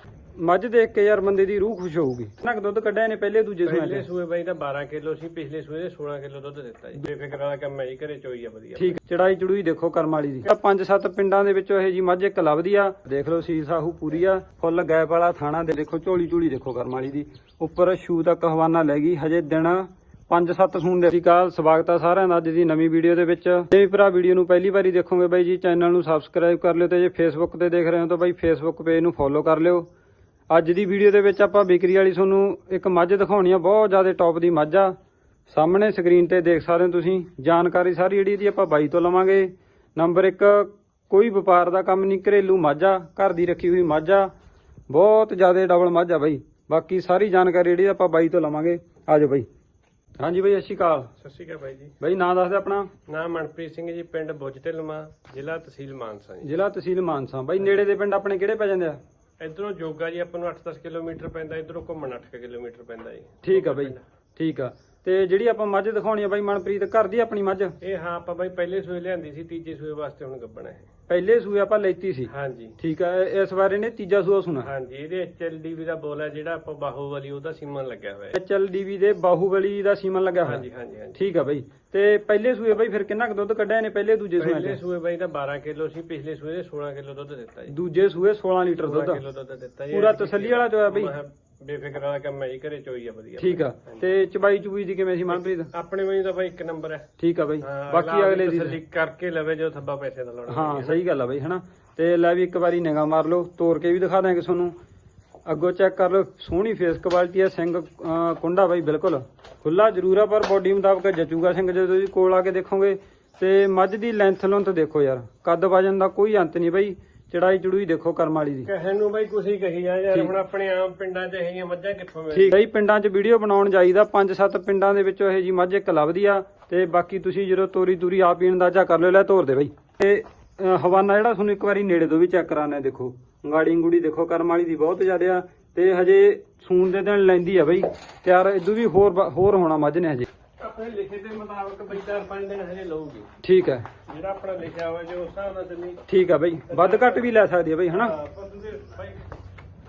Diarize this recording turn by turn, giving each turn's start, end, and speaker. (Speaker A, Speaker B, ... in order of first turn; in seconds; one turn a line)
Speaker A: 0.4-4.0
Speaker B: 3.6-9.0
Speaker A: 8.8-29.9
Speaker A: 30.5-34.9
Speaker A: 35.5-44.3
Speaker A: 44.9-49.5
Speaker A: 50.2-51.1
Speaker B: 51.2-51.9
Speaker A: 52.0-52.9
Speaker B: 53.1-56.6
Speaker A: 56.4-59.0
Speaker B: 59.4-64.0
Speaker A: 63.4-67.8
Speaker B: 67.8-70.9
Speaker A: 71.1-74.7
Speaker B: 72.3-72.8
Speaker B: 74.6-78.3
Speaker A: 78.3-80.6
Speaker B: 80.4-81.2
Speaker A: 81.2-84.8
Speaker B: 84.4-87.7
Speaker A: 87.7-89.2
Speaker B: 88.8-94.0
Speaker A: 89.9-91.1
Speaker A: 93.4-95.7
Speaker B: 95.3-97.1
Speaker A: 97.2-98.8
Speaker B: 97.6-101.0
Speaker A: 100.5-104.7
Speaker A: 105.5-118.7
Speaker B: 118.7-122.6
Speaker A: 122.3-140.3
Speaker B: 140.6-143.3
Speaker A: 143.4-143.8
Speaker B: 144.1-146.0
Speaker A: 146.1-148.1
Speaker B: 146.7-147.3
Speaker B: 147.9-149.3